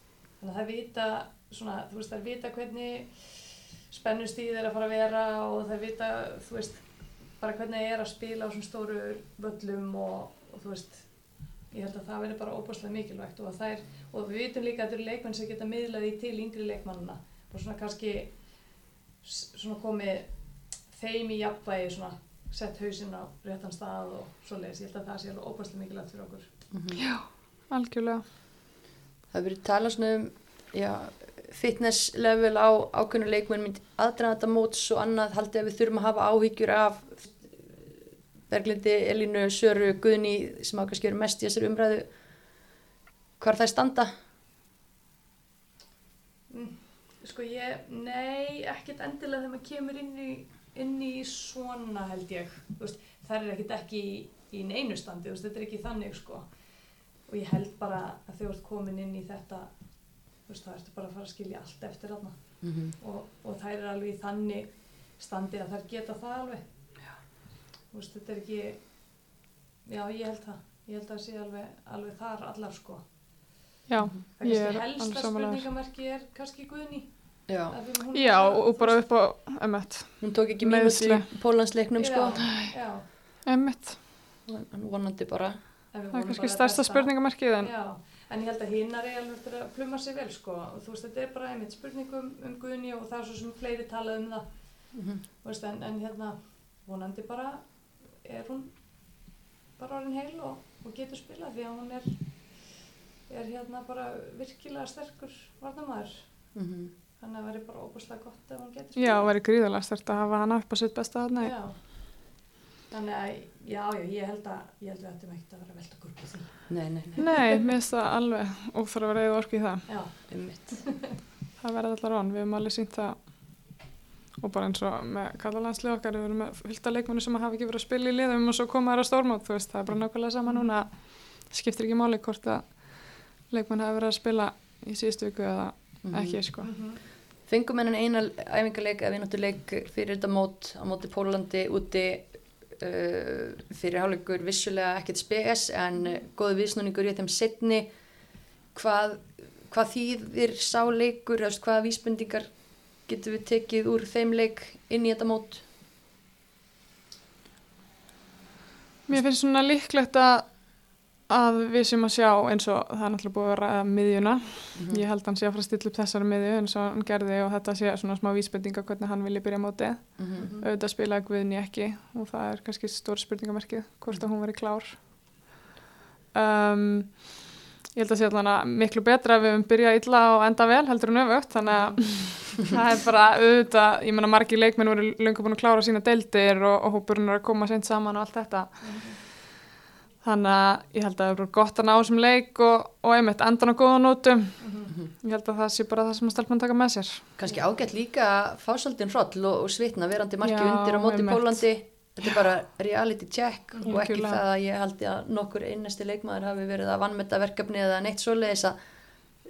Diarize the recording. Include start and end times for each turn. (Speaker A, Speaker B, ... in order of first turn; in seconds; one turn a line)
Speaker A: 0.4-6.8
Speaker A: 7.4-11.1
Speaker A: 11.7-18.3
Speaker A: 19.2-20.3
Speaker A: 20.9-26.5
Speaker B: 26.7-27.0
Speaker C: 27.0-28.2
Speaker B: 29.3-37.4
Speaker B: 38.5-42.1
Speaker B: 43.4-44.1
Speaker A: 46.5-56.5
Speaker A: 57.3-59.7
Speaker A: 60.5-62.4
Speaker B: 62.6-62.9
Speaker A: 63.0-66.6
Speaker A: 67.9-68.8
Speaker A: 69.8-73.0
Speaker C: 73.9-75.6
Speaker A: 74.4-77.1
Speaker B: 77.5-77.7
Speaker A: 77.7-79.0
Speaker C: 78.1-81.2
Speaker B: 80.2-82.4
Speaker A: 82.0-83.0
Speaker C: 83.5-84.0
Speaker B: 84.5-85.6
Speaker A: 85.9-94.5
Speaker C: 86.1-87.7
Speaker B: 94.9-95.2
Speaker A: 95.4-97.6
Speaker A: 98.2-98.7
Speaker A: 99.8-102.1
Speaker A: 103.3-106.2
Speaker B: 106.5-106.9
Speaker A: 107.2-109.3
Speaker C: 109.0-111.5
Speaker A: 111.4-111.7
Speaker A: 112.9-116.6
Speaker B: 116.7-117.2
Speaker A: 117.1-117.6
Speaker C: 117.2-119.9
Speaker A: 119.9-120.2
Speaker B: 120.3-120.8
Speaker A: 120.7-121.2
Speaker C: 121.6-123.2
Speaker C: 124.4-136.7
Speaker B: 136.0-136.4
Speaker A: 136.6-137.0
Speaker B: 137.5-147.9
Speaker B: 148.7-152.5
Speaker B: 153.1-155.6
Speaker C: 159.1-160.5
Speaker C: 161.3-175.0
Speaker B: 164.8-165.0
Speaker B: 170.2-170.5
Speaker A: 170.3-170.7
Speaker C: 176.3-188.8
Speaker A: 181.7-182.0
Speaker A: 188.8-189.2
Speaker C: 190.2-194.6
Speaker A: 194.6-194.9
Speaker C: 195.2-197.2
Speaker B: 197.4-208.7
Speaker C: 200.4-201.6
Speaker C: 203.9-204.4